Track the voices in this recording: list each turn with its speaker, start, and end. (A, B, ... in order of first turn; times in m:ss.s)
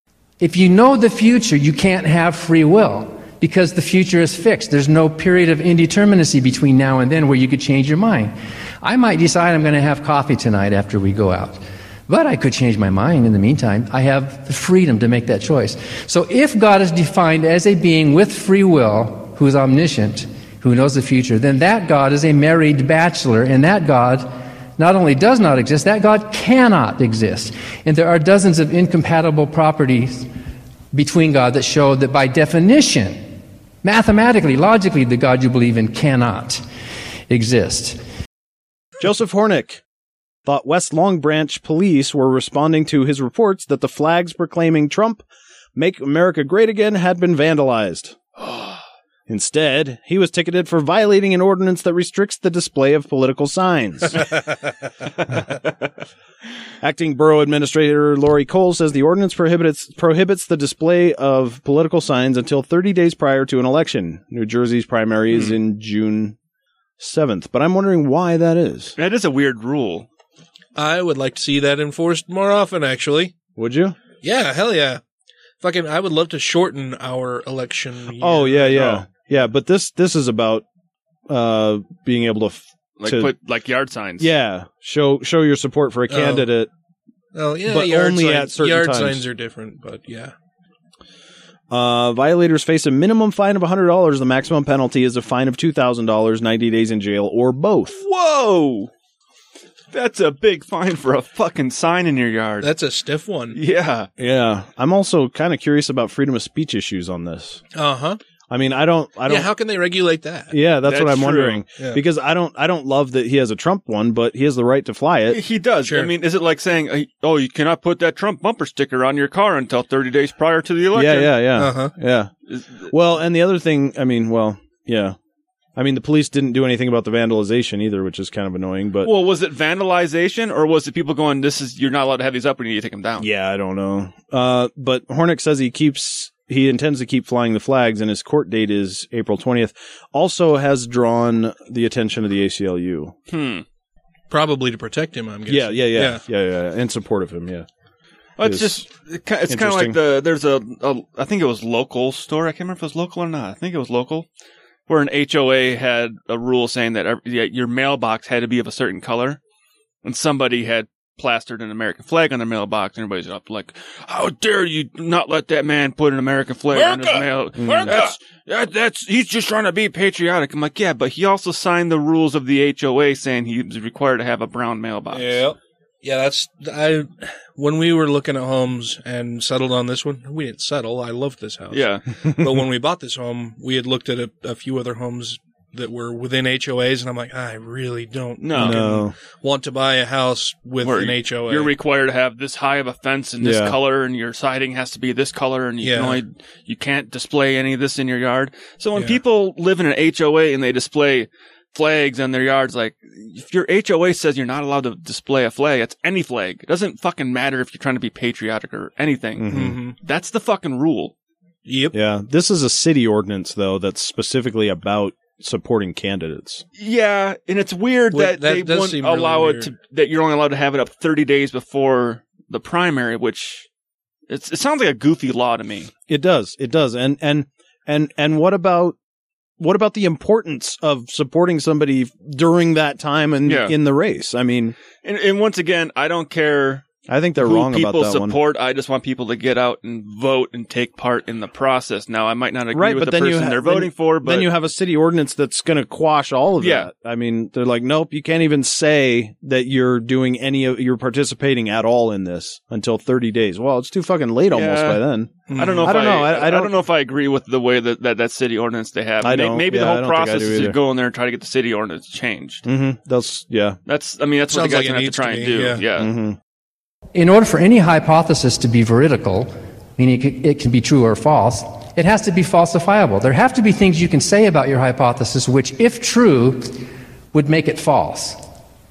0:00.4-0:30.3 A
0:30.9-0:36.6 A
0:37.3-0:38.0 A
0:39.0-0:39.8 B
0:40.4-0:45.2 B
0:45.8-0:48.2 B
0:49.3-0:54.2 B
0:56.8-1:06.4 B
1:07.0-1:08.9 B
1:09.0-1:10.1 C
1:10.8-1:13.3 D
1:13.6-1:14.0 B
1:14.2-1:15.0 D
1:15.6-1:19.1 D
1:18.2-1:20.6 B
1:21.3-1:23.3 B
1:23.0-1:24.3 C
1:24.2-1:26.7 B
1:26.1-1:26.5 D
1:27.3-1:30.3 D
1:27.6-1:29.2 B
1:31.7-1:38.0 B
1:38.0-1:38.9 C
1:39.9-1:42.7 C
1:42.6-1:43.6 D
1:43.5-1:44.1 C
1:44.2-1:47.6 B
1:47.7-1:48.2 D
1:48.5-1:49.5 B
1:49.3-1:50.5 D
1:50.5-1:55.4 B
1:50.8-1:51.6 C
1:55.3-2:01.3 C
1:55.8-1:56.1 D
2:00.9-2:02.3 B
2:01.6-2:01.9 D
2:02.5-2:02.9 C
2:02.9-2:05.2 B
2:05.8-2:09.1 B
2:09.0-2:13.3 C
2:13.2-2:23.1 B
2:23.3-2:23.6 C
2:24.3-2:26.2 D
2:25.5-2:27.6 B
2:28.4-2:34.3 C
2:28.4-2:28.8 B
2:29.5-2:30.0 B
2:34.9-2:39.4 C
2:40.0-2:55.4 C
2:46.7-2:48.1 D
2:47.6-2:48.0 B
2:55.1-3:01.8 D
3:01.7-3:02.0 C
3:02.4-3:11.7 D
3:08.4-3:08.8 C
3:08.5-3:09.1 B
3:10.8-3:31.1 C
3:13.4-3:13.8 B
3:15.8-3:16.2 D
3:29.4-3:29.8 B
3:29.5-3:30.0 D
3:31.6-3:31.9 D
3:31.9-3:36.6 B
3:36.8-3:43.7 C
3:38.1-3:39.7 D
3:44.3-3:45.9 C
3:46.1-3:49.0 B
3:49.6-3:54.8 B
3:53.4-3:53.7 C
3:55.0-3:56.8 C
3:57.1-3:58.4 B
3:57.4-4:04.5 C
4:02.7-4:16.7 B
4:06.6-4:06.9 C
4:14.5-4:15.0 C
4:15.5-4:16.0 D
4:15.5-4:22.6 C
4:19.2-4:20.8 B
4:22.6-4:23.8 B
4:23.9-4:26.1 C
4:24.5-4:25.8 D
4:26.0-4:26.4 B
4:27.1-4:38.4 A